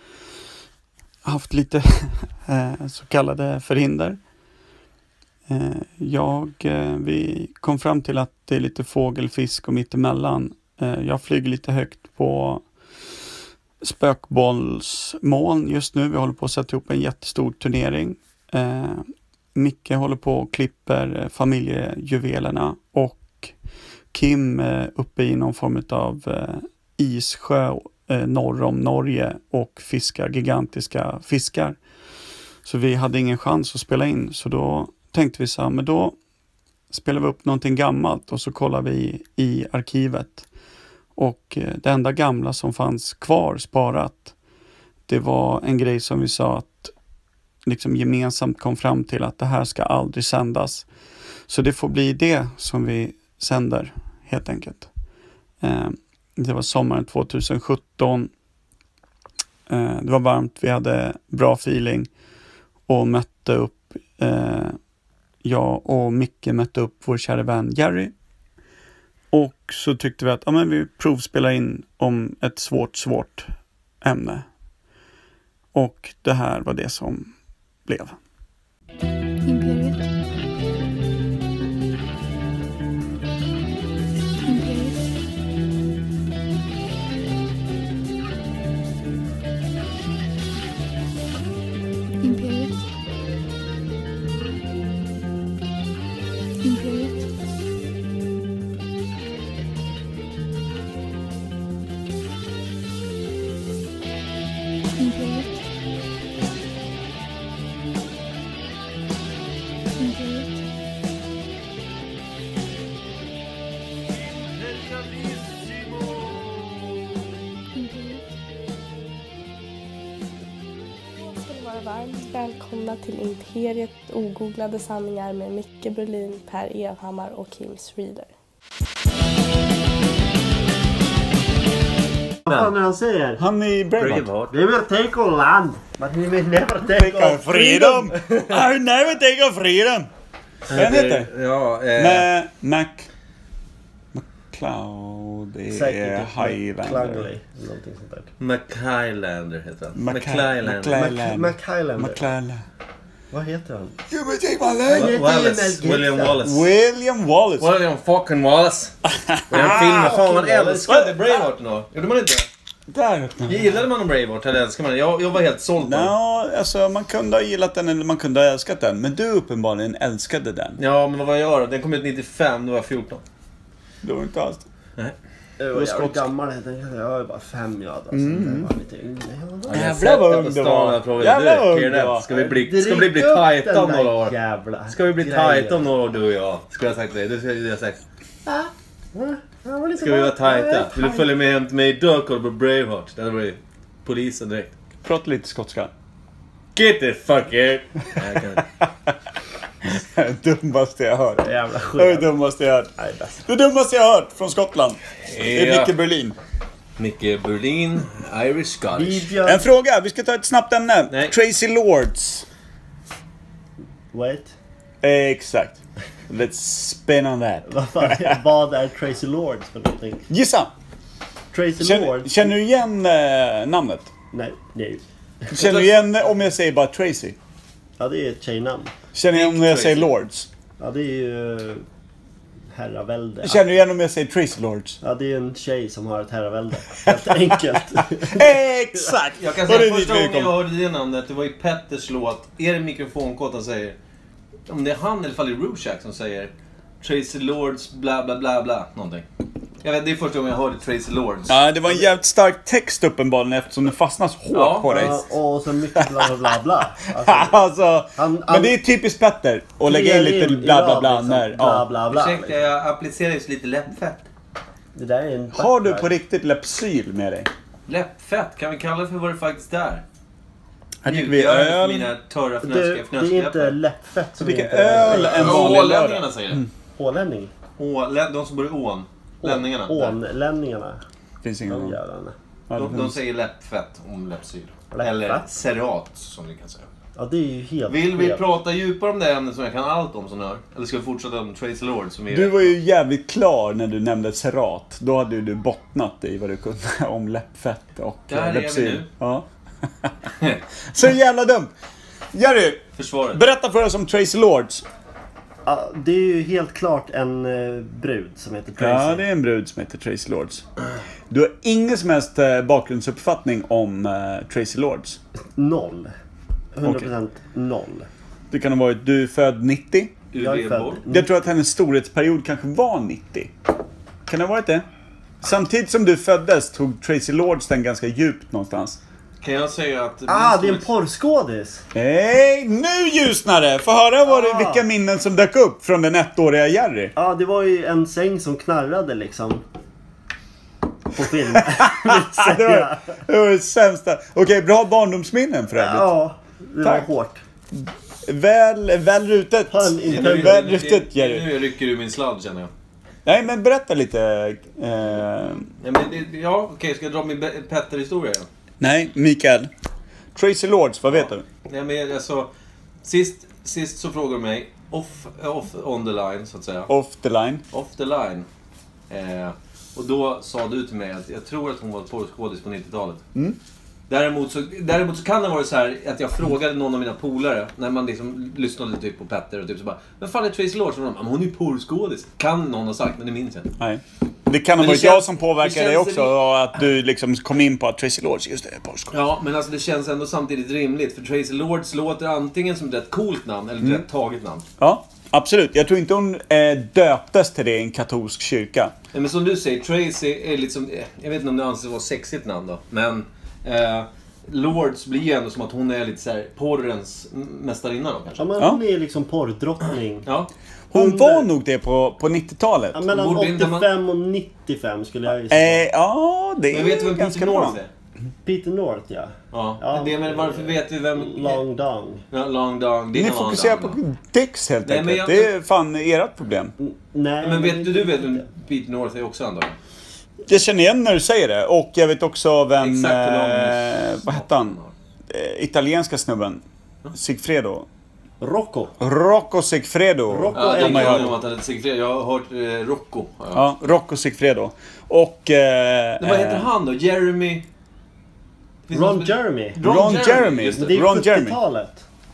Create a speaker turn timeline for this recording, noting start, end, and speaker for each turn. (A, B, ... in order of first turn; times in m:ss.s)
0:01.2-0:04.2 A
0:05.5-0:12.6 A
0:13.8-0:23.5 A
0:24.1-0:31.8 A
0:32.6-0:36.2 A
0:36.9-0:40.5 A
0:41.2-0:44.3 A
0:45.1-0:46.9 A
0:47.6-0:50.9 A
0:51.5-0:54.9 A
0:55.6-0:58.3 A
0:59.7-1:02.1 A
1:02.9-1:04.8 A
1:05.4-1:08.1 A
1:09.3-1:13.5 A
1:14.0-1:14.4 A
1:15.7-1:17.3 A
1:17.8-1:18.2 A
1:19.4-1:20.1 B
1:24.4-1:25.1 B
1:32.2-1:32.8 B
1:36.6-1:37.3 B
1:45.0-1:45.6 B
1:50.0-1:50.7 B
1:57.7-1:58.3 B
2:01.1-2:08.3 C
2:12.4-2:13.4 D
2:13.4-2:14.3 A
2:14.0-2:14.5 E
2:14.5-2:18.6 D
2:16.9-2:20.1 A
2:20.7-2:22.3 E
2:20.7-2:21.3 A
2:22.0-2:23.1 A
2:24.1-2:27.3 A
2:25.7-2:28.3 D
2:28.4-2:31.1 E
2:30.0-2:32.6 A
2:31.0-2:32.2 D
2:33.3-2:34.0 D
2:34.1-2:35.2 A
2:34.9-2:36.7 E
2:34.9-2:36.4 D
2:36.4-2:37.7 A
2:37.6-2:39.0 E
2:39.1-2:40.1 A
2:39.5-2:41.1 D
2:39.5-2:42.5 E
2:40.9-2:41.2 A
2:42.9-2:43.5 A
2:43.5-2:46.1 E
2:45.8-2:50.8 A
2:50.8-2:53.2 E
2:54.0-2:54.6 A
2:55.6-2:59.9 D
2:55.7-2:56.3 A
2:58.1-2:58.7 A
2:59.6-3:04.4 E
2:59.7-3:02.2 A
3:02.3-3:05.8 D
3:04.9-3:08.0 E
3:08.4-3:11.3 D
3:10.0-3:14.7 E
3:15.0-3:15.9 A
3:16.7-3:18.6 E
3:19.8-3:22.9 A
3:21.4-3:22.3 D
3:23.0-3:23.4 D
3:23.4-3:26.4 A
3:25.2-3:25.9 E
3:27.0-3:29.3 E
3:28.9-3:29.7 D
3:29.4-3:32.4 A
3:31.1-3:31.4 E
3:34.1-3:34.5 D
3:35.0-3:35.8 A
3:36.3-3:38.4 A
3:37.7-3:40.2 D
3:40.3-3:40.7 A
3:41.5-3:42.5 D
3:41.8-3:44.1 A
3:44.3-3:45.0 D
3:45.5-3:47.4 A
3:45.6-3:45.9 E
3:48.0-3:48.9 D
3:49.1-3:50.5 A
3:49.3-3:50.1 E
3:50.8-3:51.8 D
3:52.7-3:53.6 D
3:53.4-3:55.0 A
3:55.0-3:58.6 D
3:58.0-4:00.5 A
3:59.4-4:04.0 E
4:04.6-4:09.3 E
4:09.8-4:11.6 E
4:11.5-4:15.2 A
4:14.5-4:15.1 E
4:14.9-4:18.8 D
4:16.0-4:16.5 A
4:17.0-4:21.8 A
4:19.9-4:22.5 D
4:22.1-4:24.3 E
4:24.9-4:26.1 D
4:25.5-4:27.5 A
4:27.9-4:30.0 E
4:31.0-4:32.1 A
4:31.0-4:33.8 E
4:32.6-4:35.8 D
4:34.4-4:36.7 A
4:35.0-4:36.6 E
4:37.0-4:37.5 D
4:37.8-4:40.2 E
4:39.4-4:41.0 D
4:41.4-4:42.0 A
4:41.7-4:42.3 D
4:42.7-4:43.2 A
4:42.8-4:46.9 E
4:44.9-4:45.5 D
4:47.2-4:48.4 D
4:47.9-4:52.7 E
4:52.3-4:59.5 A
4:58.3-4:59.1 E
5:00.8-5:01.7 A
5:02.3-5:04.8 A
5:03.0-5:03.4 E
5:05.6-5:09.2 D
5:08.8-5:10.6 A
5:11.3-5:15.2 A
5:15.6-5:16.1 D
5:16.8-5:18.1 D
5:16.8-5:17.1 A
5:18.5-5:20.1 A
5:20.3-5:21.0 E
5:20.4-5:21.3 D
5:21.1-5:23.5 A
5:24.3-5:24.8 A
5:25.4-5:29.0 A
5:29.4-5:30.8 E
5:30.3-5:31.8 D
5:31.9-5:37.1 A
5:34.3-5:34.8 D
5:37.2-5:39.6 D
5:41.1-5:43.0 D
5:41.6-5:46.1 A
5:45.8-5:47.4 D
5:46.8-5:47.1 A
5:47.7-5:51.5 A
5:49.7-5:50.7 D
5:50.1-5:52.7 E
5:53.2-5:55.7 A
5:55.8-5:58.5 E
5:58.8-5:59.7 A
6:00.3-6:01.4 A
6:01.6-6:02.5 E
6:03.0-6:06.9 E
6:06.9-6:07.6 A
6:07.7-6:08.5 E
6:09.1-6:13.2 E
6:14.1-6:23.7 E
6:23.8-6:29.1 A
6:24.8-6:26.4 E
6:29.1-6:34.6 E
6:34.8-6:38.9 A
6:39.1-6:48.5 E
6:48.4-6:50.3 D
6:50.2-6:50.5 E
6:50.9-6:53.0 A
6:50.9-6:51.5 D
6:52.9-6:55.8 D
6:53.1-6:53.9 E
6:55.5-6:57.8 A
6:56.7-6:57.9 E
6:58.4-7:02.2 D
6:59.5-7:01.6 E
7:02.3-7:04.0 E
7:03.1-7:06.7 A
7:04.8-7:05.5 E
7:06.8-7:08.5 D
7:07.4-7:09.8 E
7:10.5-7:14.8 A
7:12.8-7:14.9 E
7:15.3-7:17.9 A
7:18.4-7:19.0 D
7:19.0-7:21.3 A
7:20.3-7:21.4 D
7:20.5-7:23.8 E
7:23.5-7:26.7 A
7:26.2-7:27.6 E
7:28.9-7:31.1 E
7:28.9-7:29.8 D
7:29.8-7:31.6 A
7:30.7-7:32.0 D